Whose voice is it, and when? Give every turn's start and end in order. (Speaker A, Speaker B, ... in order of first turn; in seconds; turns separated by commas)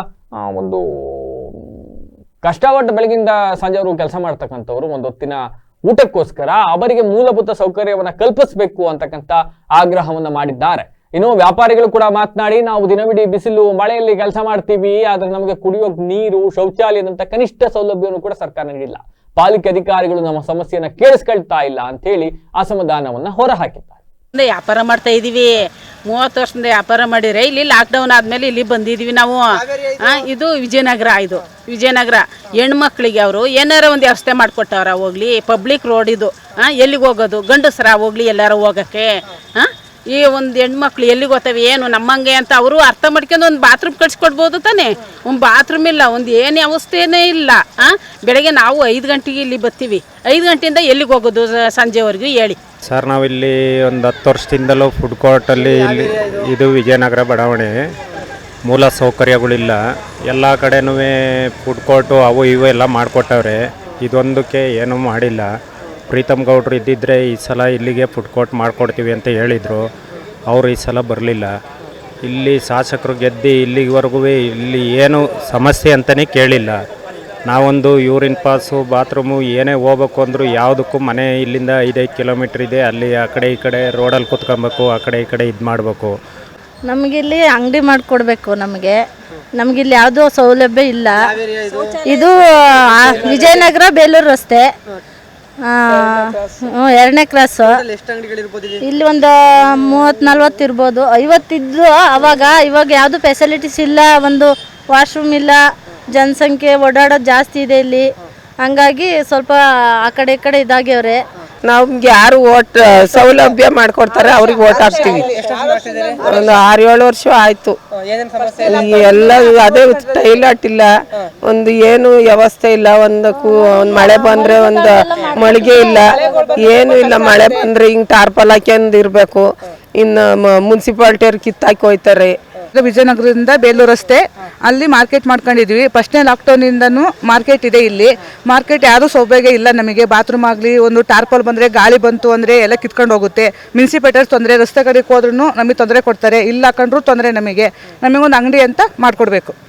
Speaker A: 0.4-1.6, Speaker A: 2.4-24.0, Speaker B: 24.4-52.6, Speaker C: 52.9-57.7, Speaker C: 58.7-65.5, Speaker C: 66.1-69.8, Speaker C: 70.5-71.5, Speaker C: 72.2-76.8, Speaker C: 77.5-86.1, Speaker D: 86.9-89.0, Speaker D: 89.6-91.3, Speaker D: 92.0-94.7, Speaker D: 95.7-97.8, Speaker D: 98.8-105.6, Speaker D: 106.2-108.1, Speaker D: 108.6-111.2, Speaker E: 111.7-115.3, Speaker E: 116.2-117.8, Speaker E: 118.5-120.9, Speaker E: 121.5-129.4, Speaker D: 123.6-126.0, Speaker E: 130.0-132.3, Speaker F: 132.8-149.6